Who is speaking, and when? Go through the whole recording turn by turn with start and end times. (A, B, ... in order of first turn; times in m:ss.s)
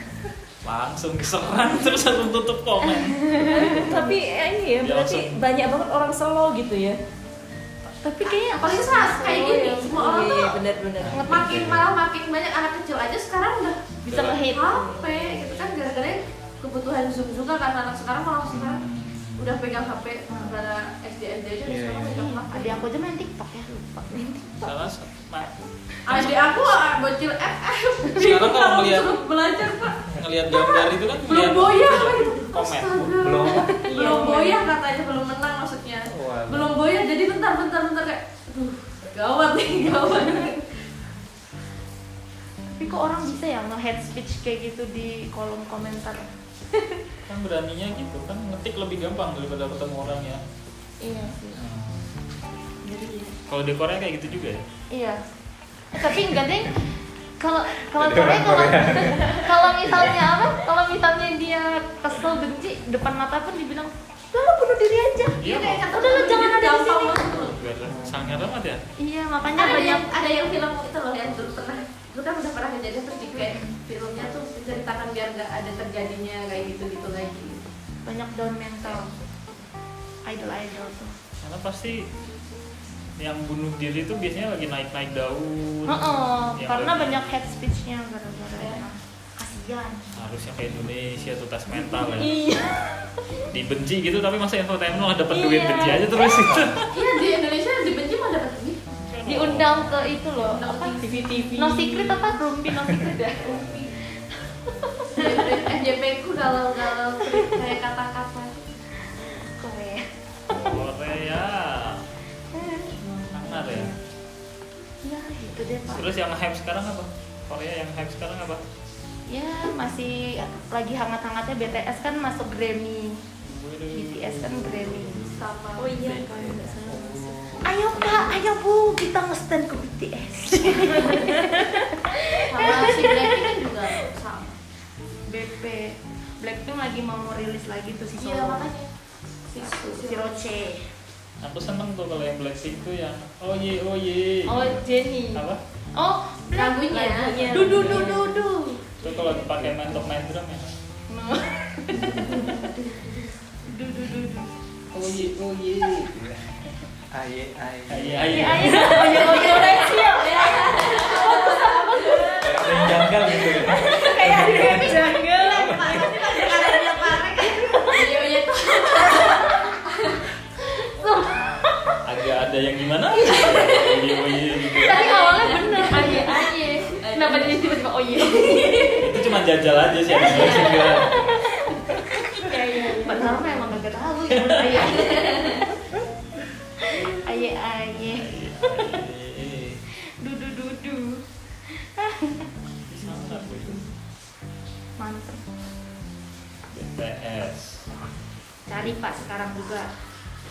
0:00.6-0:03.3 A
0:03.0-0:07.0 B
0:03.2-0:03.9 C
0:03.8-0:04.2 D
0:04.8-0:05.4 A
0:08.0-0:09.2 C
0:08.2-0:18.8 E
0:08.9-0:11.2 B
0:11.0-0:11.9 D
0:11.1-0:11.5 C
0:14.1-0:14.8 C
0:14.7-0:15.0 B
0:18.5-0:19.6 D
0:19.4-0:22.8 E
0:20.3-0:20.6 C
0:21.6-0:22.1 D
0:22.1-0:24.8 C
0:24.1-0:24.4 B
0:24.6-0:25.5 A
0:26.0-0:40.7 E
0:28.2-0:29.2 A
0:30.1-0:33.1 A
0:33.2-0:33.8 D
0:33.8-0:34.6 B
0:33.8-0:34.3 C
0:36.1-0:36.7 D
0:40.2-0:40.5 C
0:42.8-0:46.2 C
0:47.3-0:50.4 A
0:51.0-0:51.6 C
0:51.5-0:52.0 D
0:52.8-0:53.3 B
0:53.5-0:54.6 A
0:54.9-0:55.2 C
0:55.9-0:56.8 C
0:57.4-1:05.4 C
0:57.9-1:00.2 D
1:05.4-1:05.8 A
1:05.4-1:07.6 E
1:05.9-1:07.2 C
1:07.4-1:08.8 A
1:07.8-1:08.4 D
1:09.0-1:10.1 C
1:09.5-1:17.6 E
1:13.3-1:13.8 C
1:18.0-1:19.1 C
1:20.2-1:21.1 C
1:21.4-1:22.1 A
1:23.2-1:27.4 A
1:25.8-1:30.1 C
1:30.2-1:32.3 A
1:31.9-1:32.3 C
1:32.0-1:33.0 B
1:33.5-1:36.9 A
1:35.3-1:36.6 C
1:36.9-1:38.8 E
1:39.0-1:39.9 A
1:39.2-1:41.0 C
1:40.4-1:41.7 E
1:41.0-1:42.3 B
1:41.6-1:43.9 C
1:43.4-1:43.9 E
1:44.8-1:45.6 C
1:45.2-1:48.6 E
1:47.2-1:47.5 C
1:49.3-1:50.8 C
1:50.5-1:52.0 A
1:52.5-1:54.0 C
1:53.3-1:53.9 A
1:55.0-1:56.2 C
1:55.9-1:58.6 A
1:59.3-2:03.2 C
2:03.4-2:05.4 A
2:03.9-2:05.4 C
2:05.3-2:06.0 E
2:05.8-2:08.4 B
2:06.0-2:08.2 D
2:07.6-2:13.4 C
2:10.9-2:11.7 B
2:12.4-2:14.6 E
2:15.3-2:18.7 C
2:18.1-2:18.9 E
2:19.5-2:20.3 E
2:19.9-2:20.8 C
2:21.4-2:24.8 A
2:24.5-2:25.4 C
2:25.3-2:25.6 A
2:26.0-2:28.2 C
2:26.5-2:28.9 E
2:27.0-2:28.4 B
2:29.0-2:30.7 A
2:29.0-2:30.1 D
2:31.1-2:32.7 C
2:31.9-2:32.5 D
2:32.2-2:33.3 E
2:33.6-2:34.5 C
2:34.9-2:36.2 A
2:37.1-2:39.1 D
2:37.9-2:38.8 A
2:38.2-2:42.4 C
2:38.5-2:49.4 B
2:41.0-2:41.8 E
2:42.4-2:45.0 D
2:43.6-2:50.1 E
2:45.5-2:46.1 D
2:47.5-2:48.2 C
2:49.0-2:49.7 C
2:50.7-2:52.0 C
2:52.0-2:55.0 A
2:53.2-2:53.9 B
2:53.2-2:53.6 C
2:54.7-2:56.9 B
2:54.8-2:59.2 C
2:54.9-2:56.3 E
2:57.0-2:57.8 E
2:58.3-2:59.0 B
2:59.0-3:01.3 A
3:00.1-3:03.7 B
3:00.2-3:01.3 C
3:01.9-3:05.7 C
3:04.3-3:04.8 A
3:04.8-3:05.4 E
3:06.8-3:09.0 C
3:08.1-3:09.8 A
3:10.2-3:11.2 C
3:12.0-3:12.5 C
3:12.9-3:13.9 A
3:15.0-3:15.4 C
3:16.7-3:17.8 A
3:18.6-3:19.9 C